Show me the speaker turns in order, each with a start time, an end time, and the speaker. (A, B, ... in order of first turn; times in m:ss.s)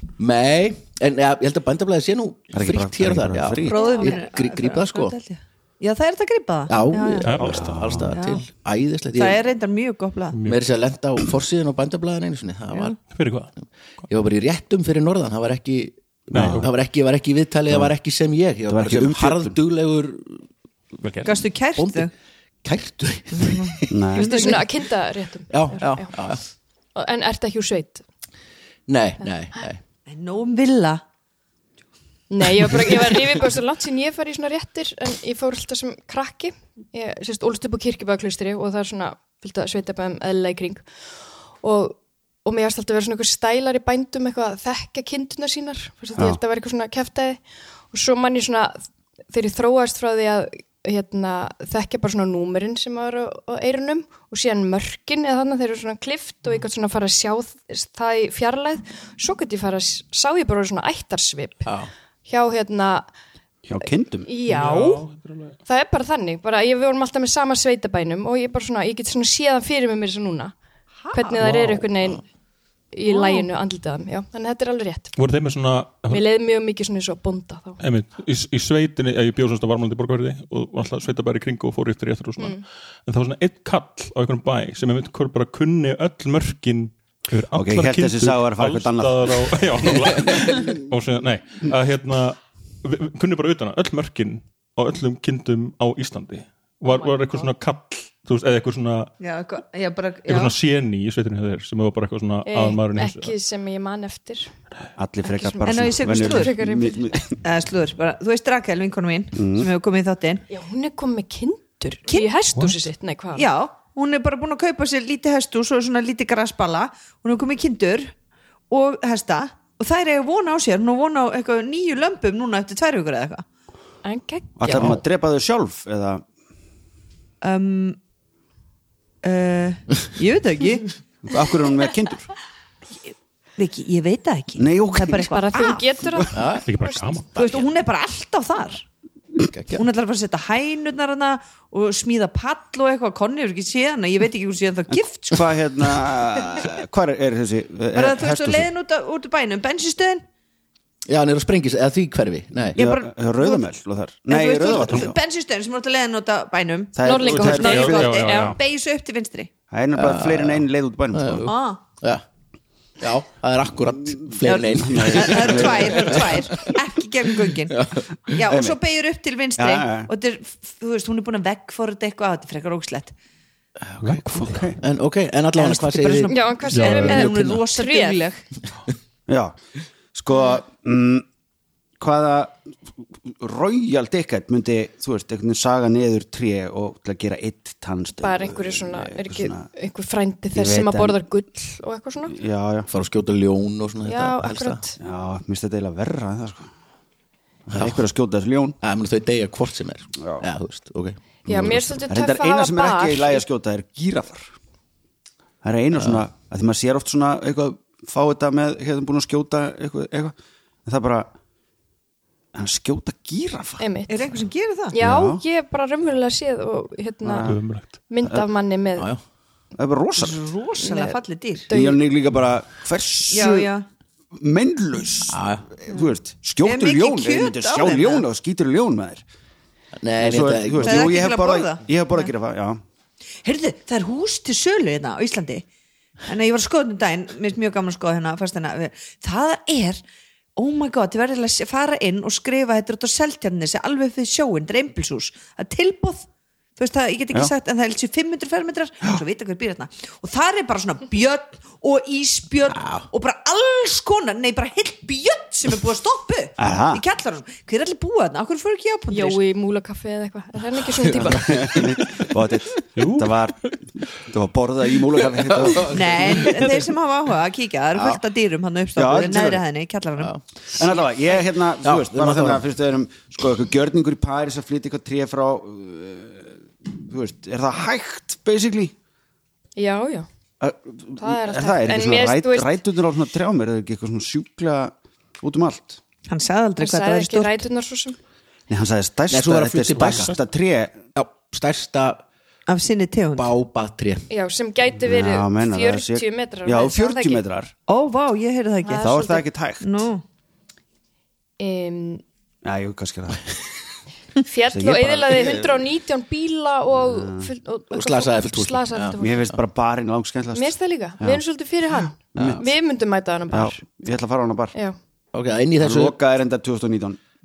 0:00.2-0:05.1 A
0:02.5-0:03.8 B
0:03.6-0:07.4 C
0:03.8-0:04.2 D
0:06.7-0:09.4 A
0:07.2-0:07.8 E
0:07.4-0:08.1 B
0:07.9-0:08.4 C
0:09.1-0:10.4 C
0:10.3-0:10.6 E
0:10.4-0:13.0 A
0:13.1-0:13.5 E
0:14.1-0:20.4 A
0:16.3-0:16.7 E
0:16.3-0:16.6 B
0:18.7-0:19.5 B
0:21.0-0:21.3 E
0:21.2-0:22.1 C
0:21.8-0:22.1 A
0:22.6-0:24.0 A
0:23.3-0:24.6 C
0:23.9-0:24.5 B
0:24.1-0:26.1 D
0:25.5-0:26.4 A
0:26.9-0:28.0 D
0:28.9-0:29.8 A
0:30.1-0:31.0 C
0:32.3-0:40.8 D
0:41.6-1:01.7 D
1:02.2-1:03.1 D
1:03.6-1:04.2 B
1:04.2-1:05.0 D
1:04.5-1:05.6 E
1:05.6-1:10.5 D
1:11.0-1:11.4 C
1:11.1-1:12.2 D
1:12.9-1:15.1 D
1:13.0-1:13.5 C
1:15.2-1:16.2 E
1:16.1-1:17.8 D
1:17.8-1:39.1 E
1:27.5-1:30.1 B
1:36.9-1:37.5 D
1:39.2-1:40.5 C
1:40.3-1:43.3 E
1:42.4-1:44.5 D
1:45.0-1:47.3 B
1:45.2-1:47.1 D
1:45.6-1:50.4 C
1:49.4-1:49.7 B
1:50.5-1:53.5 D
1:52.6-1:52.8 E
1:53.3-1:58.1 C
1:58.7-2:03.4 C
2:04.0-2:05.0 D
2:04.6-2:06.2 B
2:07.4-2:08.0 C
2:09.2-2:11.0 C
2:11.2-2:12.3 B
2:13.6-2:16.0 C
2:14.6-2:15.3 B
2:15.2-2:17.6 D
2:16.3-2:16.7 A
2:16.6-2:17.3 E
2:17.3-2:18.8 C
2:19.4-2:19.8 A
2:19.7-2:25.5 C
2:25.3-2:28.7 B
2:27.9-2:30.2 C
2:31.1-2:32.8 A
2:32.7-2:33.7 C
2:32.7-2:35.2 B
2:34.3-2:39.5 C
2:36.9-2:38.0 B
2:37.0-2:38.6 D
2:37.2-2:38.6 E
2:39.7-2:41.5 B
2:39.9-2:42.2 A
2:41.4-2:41.8 C
2:43.0-2:46.8 A
2:44.4-2:53.1 C
2:44.8-2:46.3 B
2:47.7-2:48.0 A
2:48.4-2:48.8 B
2:49.6-2:50.1 B
2:53.8-2:57.6 A
2:54.2-2:54.8 B
2:55.6-2:58.4 C
2:56.3-2:58.2 D
2:56.7-2:57.1 E
2:59.3-2:59.6 B
3:00.1-3:01.2 B
3:00.3-3:00.6 D
3:02.0-3:02.6 B
3:03.2-3:09.7 B
3:08.2-3:12.4 D
3:10.5-3:11.2 B
3:12.3-3:12.9 B
3:12.9-3:14.8 A
3:14.0-3:15.0 D
3:15.0-3:16.7 B
3:17.6-3:18.8 B
3:17.7-3:18.0 A
3:18.8-3:22.0 A
3:21.4-3:23.4 D
3:22.1-3:24.5 B
3:25.6-3:31.3 B
3:25.9-3:26.2 A
3:32.5-3:33.8 B
3:33.8-3:34.1 D
3:34.1-3:35.0 C
3:34.9-3:39.1 D
3:35.0-3:35.4 B
3:37.2-3:37.6 B
3:37.4-3:37.9 E
3:39.8-3:40.4 B
3:40.2-3:41.7 C
3:40.8-3:42.0 D
3:41.7-3:43.7 B
3:43.3-3:43.8 C
3:44.3-3:49.2 B
3:45.3-3:45.6 A
3:46.6-3:48.2 C
3:50.0-3:51.1 A
3:50.2-3:52.8 B
3:50.8-3:52.3 C
3:53.4-3:55.6 C
3:56.3-4:00.0 C
4:00.6-4:19.4 C
4:12.7-4:13.0 A
4:16.6-4:17.0 B
4:19.1-4:21.9 D
4:21.2-4:26.5 B
4:23.0-4:23.5 E
4:25.4-4:26.4 A
4:25.8-4:30.4 C
4:29.0-4:29.6 B
4:30.7-4:38.9 B
4:31.8-4:32.6 A
4:39.8-4:40.3 D
4:40.6-4:46.0 B
4:41.2-4:42.7 D
4:46.3-4:47.6 C
4:46.8-4:48.2 D
4:48.7-4:51.0 B
4:49.3-4:50.3 A
4:51.1-4:52.2 A
4:52.7-4:53.5 C
4:53.4-4:54.2 A
4:54.3-4:57.4 D
4:55.0-4:57.7 B
4:57.9-5:00.2 C
4:58.8-4:59.3 D
4:59.0-5:00.0 B
5:01.6-5:02.2 D
5:02.6-5:03.5 B
5:04.4-5:09.5 D
5:04.7-5:05.9 B
5:06.9-5:07.5 B
5:07.9-5:09.2 A
5:09.2-5:11.4 B
5:10.5-5:14.1 D
5:12.2-5:12.7 B
5:12.4-5:12.6 A
5:13.5-5:14.7 B
5:15.3-5:16.2 A
5:15.8-5:17.2 B